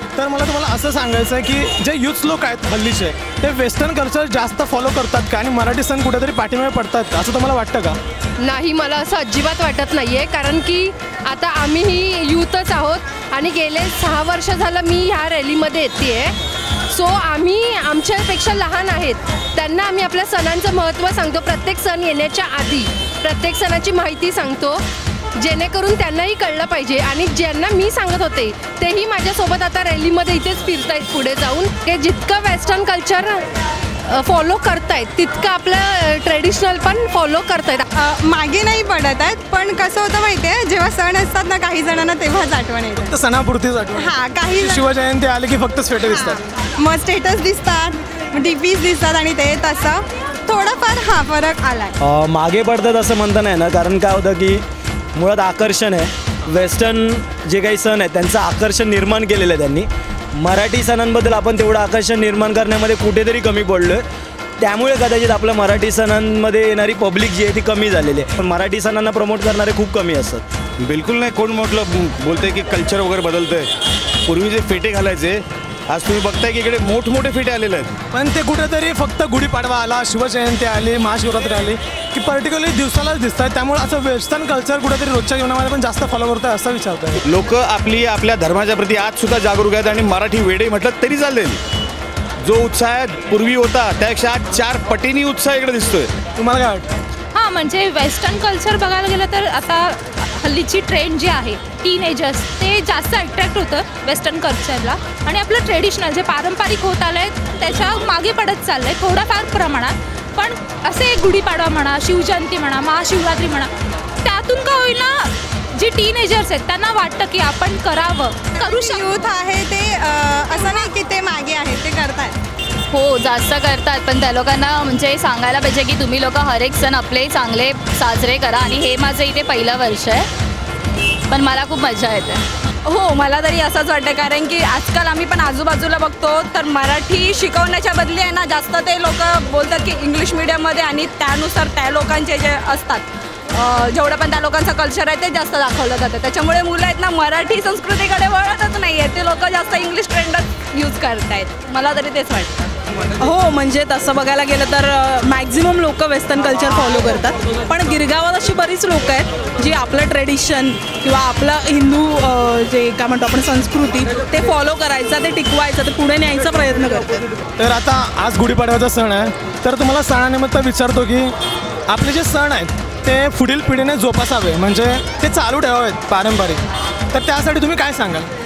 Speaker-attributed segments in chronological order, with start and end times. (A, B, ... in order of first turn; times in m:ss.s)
0:00.2-0:08.0 A
0:08.4-0:16.4 B
0:16.9-0:24.8 B
0:25.4-0:33.4 B
0:34.1-0:37.8 B
0:38.0-0:43.1 C
0:43.0-0:46.4 A
0:44.0-0:45.0 C
0:46.0-0:52.0 C
0:52.0-0:54.6 D
0:55.2-1:04.0 D
1:04.6-1:10.4 D
1:10.8-1:13.7 E
1:14.3-1:17.9 E
1:18.1-1:27.2 A
1:27.2-1:31.6 E
1:32.4-1:36.1 E
1:36.4-1:36.9 A
1:37.4-1:53.7 F
1:54.2-1:59.1 F
1:58.6-2:02.4 C
2:02.9-2:10.3 G
2:11.3-2:12.4 G
2:12.8-2:32.7 H
2:33.2-2:47.1 I
2:47.6-2:51.4 A
2:51.9-2:56.6 A
2:57.1-2:58.3 A